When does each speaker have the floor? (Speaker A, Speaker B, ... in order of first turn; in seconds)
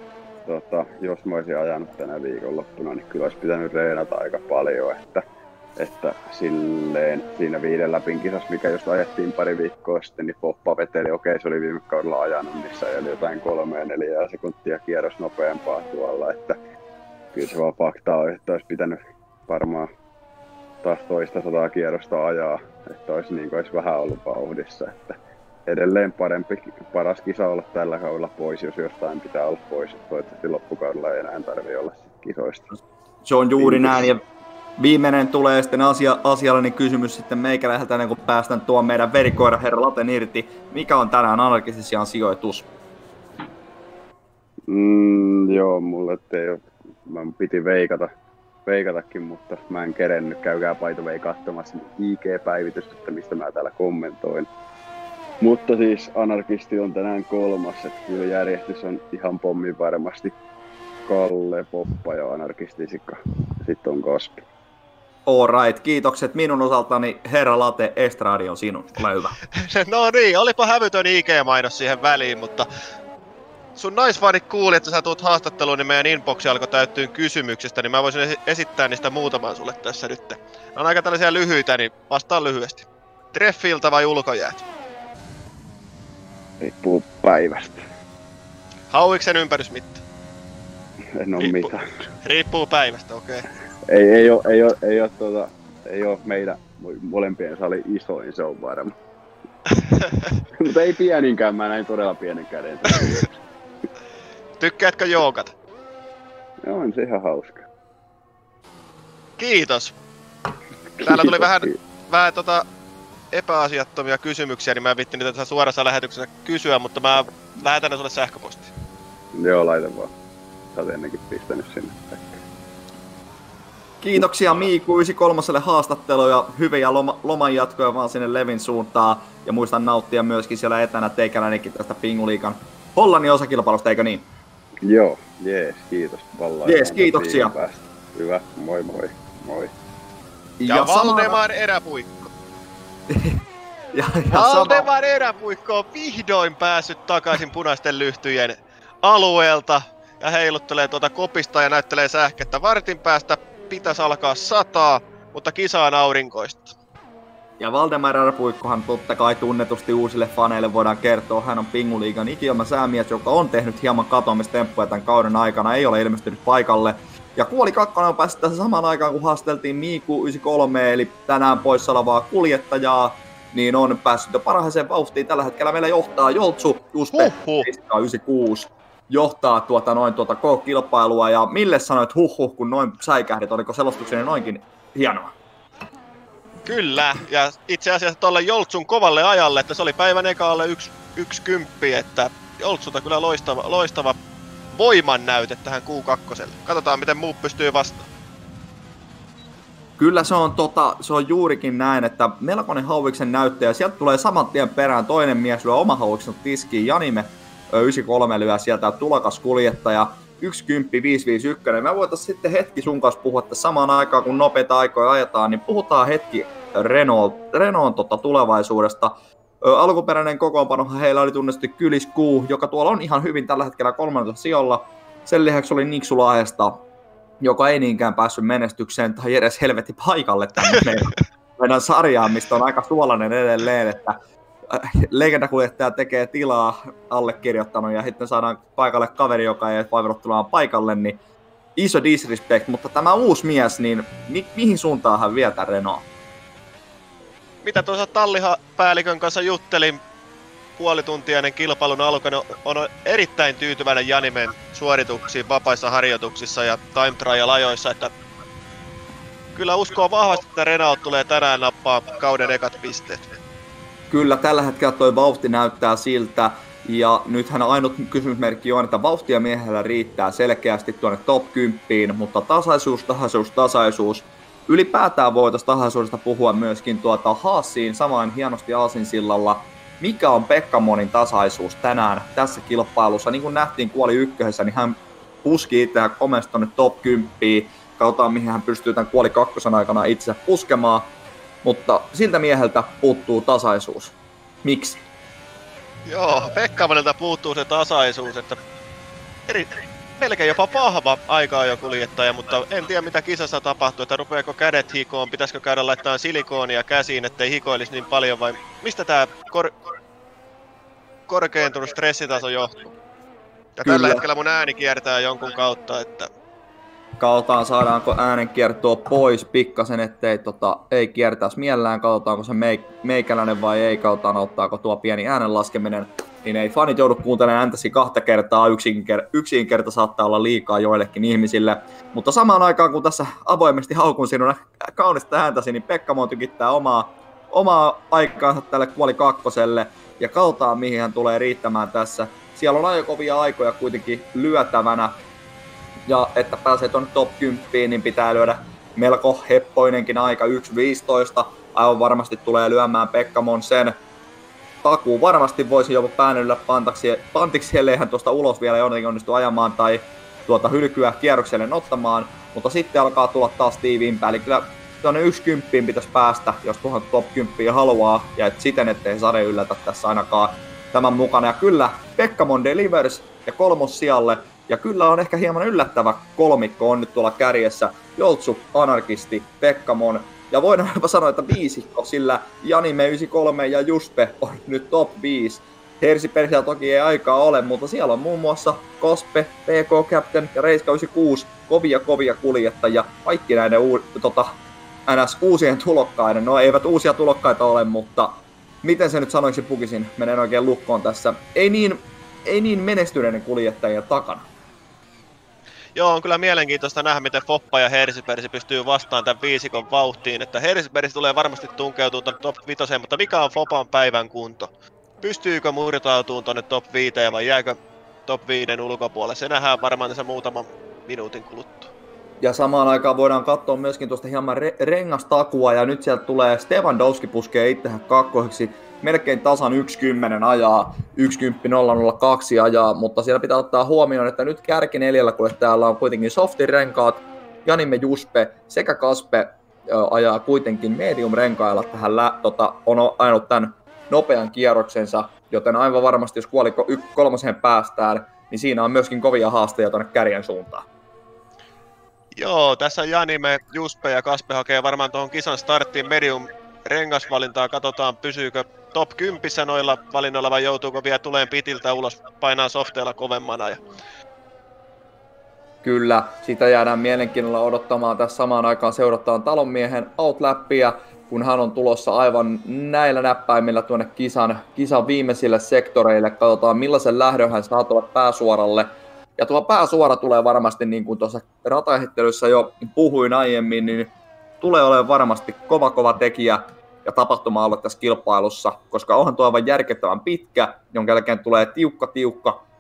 Speaker A: 0.5-5.2, 5.8-16.6, 17.3-19.9, 20.8-32.8, 33.6-34.1, 44.7-48.1, 48.7-54.5, 55.4-60.4, 61.1-64.4, 86.6-87.8, 91.2-91.9, 93.9-98.9, 100.6-103.3, 106.6-107.7, 111.0-111.8, 119.4-120.1, 120.8-122.4, 134.8-139.7
Speaker B: 33.2-34.2, 34.8-42.7, 65.3-69.4, 124.0-134.3, 136.7-137.6, 140.6-141.4, 143.1-143.4, 143.9-144.9, 157.6-185.3, 200.0-226.8, 227.4-234.2, 234.7-241.2, 241.8-246.1, 264.1-291.1, 291.6-295.0, 313.9-314.2, 317.2-345.2, 346.1-354.0, 354.8-394.5, 395.1-404.5, 422.4-450.9, 465.8-484.1, 484.6-492.6
Speaker C: 69.5-72.7, 73.8-84.7, 88.9-90.0, 91.4-93.5, 104.6-105.5, 109.4-109.9, 111.0-112.7, 113.3-118.7, 140.7-142.1, 144.3-156.8, 177.1-177.7, 186.7-194.2, 194.7-198.1, 247.6-250.0, 250.8-258.1, 259.6-263.3, 296.1-298.6, 299.5-309.8, 311.3-312.9, 313.8-316.3, 405.9-414.7, 415.2-421.9, 452.3-463.8